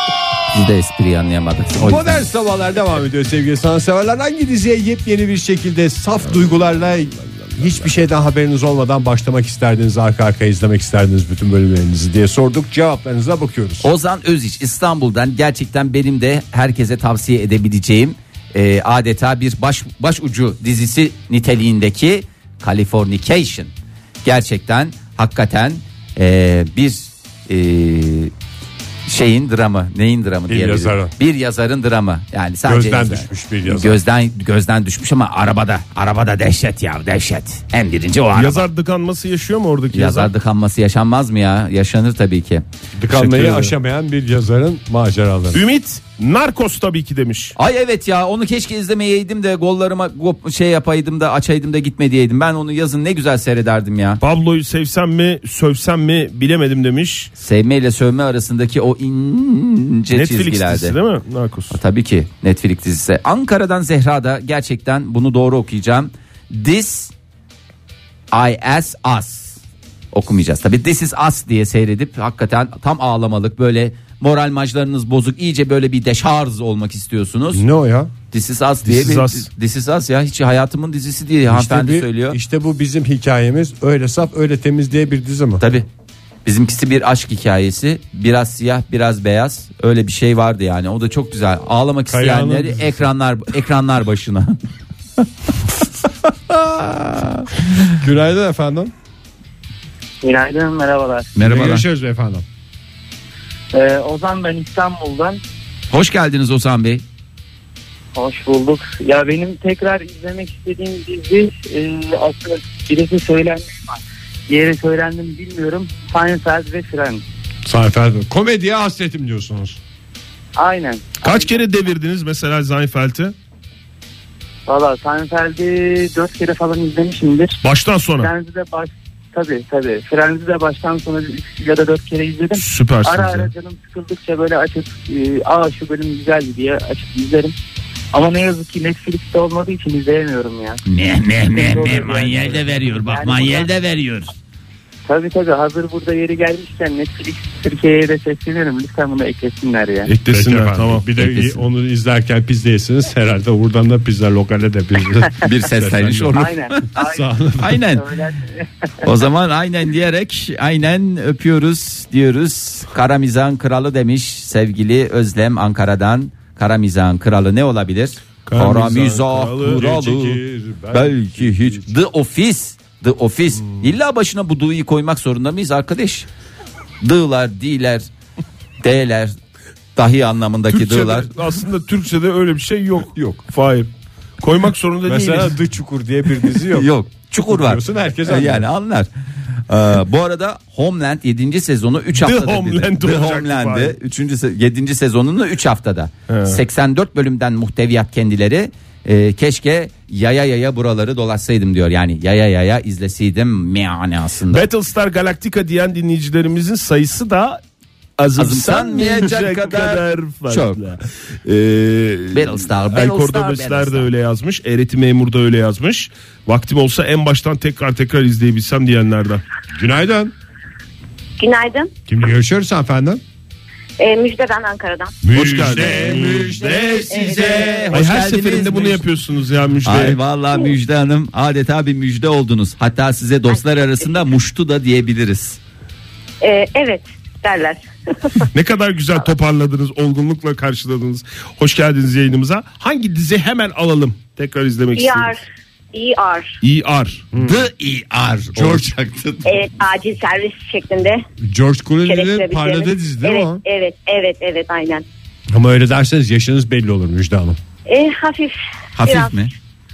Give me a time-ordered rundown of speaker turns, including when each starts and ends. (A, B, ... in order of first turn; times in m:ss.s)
0:00.5-0:02.2 A
0:01.8-0:13.9 B
0:13.8-0:23.7 A
0:24.2-0:28.3 A
0:29.0-0:38.7 A
0:30.5-0:31.1 B
0:32.6-0:34.0 B
0:38.3-0:40.3 C
0:39.9-0:42.6 A
0:43.0-0:45.6 B
0:43.1-0:43.7 C
0:45.5-0:47.6 C
0:47.6-0:54.2 A
0:54.2-0:57.3 C
0:57.4-1:00.9 A
1:00.1-1:01.8 C
1:01.7-1:07.1 A
1:08.3-1:09.6 A
1:10.1-1:17.6 A
1:17.5-1:18.1 B
1:18.3-1:22.4 A
1:18.8-1:19.5 C
1:21.5-1:25.6 B
1:25.6-1:25.8 A
1:26.4-1:34.6 A
1:32.1-1:33.1 B
1:35.2-1:35.5 A
1:36.5-1:37.5 A
1:38.0-1:38.9 B
1:40.2-1:41.3 D
1:41.3-1:41.8 A
1:41.4-1:42.4 B
1:43.7-1:45.4 D
1:45.9-1:47.0 A
1:48.1-1:57.2 D
1:57.6-1:59.8 B
2:00.6-2:01.7 D
2:01.2-2:03.3 C
2:04.7-2:07.6 D
2:07.6-2:08.3 C
2:08.2-2:17.6 D
2:12.5-2:13.5 C
2:18.1-2:20.8 D
2:20.8-2:24.3 A
2:21.5-2:23.7 D
2:25.0-2:30.1 D
2:30.1-2:31.0 C
2:30.2-2:36.4 B
2:31.2-2:31.6 A
2:35.4-2:37.0 A
2:36.3-2:37.3 D
2:36.9-2:37.8 B
2:37.6-2:38.0 A
2:37.9-2:38.6 D
2:39.0-2:50.4 A
2:48.4-2:49.8 C
2:49.6-2:51.9 B
2:50.9-2:56.3 A
2:57.0-2:58.1 A
2:58.8-2:59.4 A
3:00.0-3:01.3 A
3:00.7-3:03.9 C
3:03.1-3:03.4 B
3:04.4-3:05.6 C
3:05.0-3:06.9 B
3:06.7-3:09.1 A
3:07.4-3:08.6 B
3:09.7-3:24.7 A
3:12.1-3:14.0 C
3:16.3-3:16.6 C
3:24.5-3:27.6 C
3:28.2-3:39.4 C
3:28.4-3:30.8 A
3:32.3-3:34.1 A
3:39.7-3:40.3 B
3:41.4-3:41.9 E
3:42.1-3:43.2 B
3:44.0-3:45.1 E
3:45.2-3:50.2 C
3:45.3-3:47.1 B
3:45.7-3:49.0 A
3:47.1-3:47.9 E
3:49.8-3:55.6 A
3:56.4-3:58.5 E
3:58.5-4:05.4 C
4:05.0-4:05.4 E
4:05.9-4:06.5 E
4:06.6-4:07.3 C
4:07.3-4:07.6 B
4:07.4-4:09.4 A
4:08.5-4:08.9 B
4:09.4-4:11.2 E
4:11.4-4:13.6 B
4:12.0-4:15.0 E
4:15.5-4:17.6 B
4:17.9-4:19.4 E
4:18.9-4:19.5 A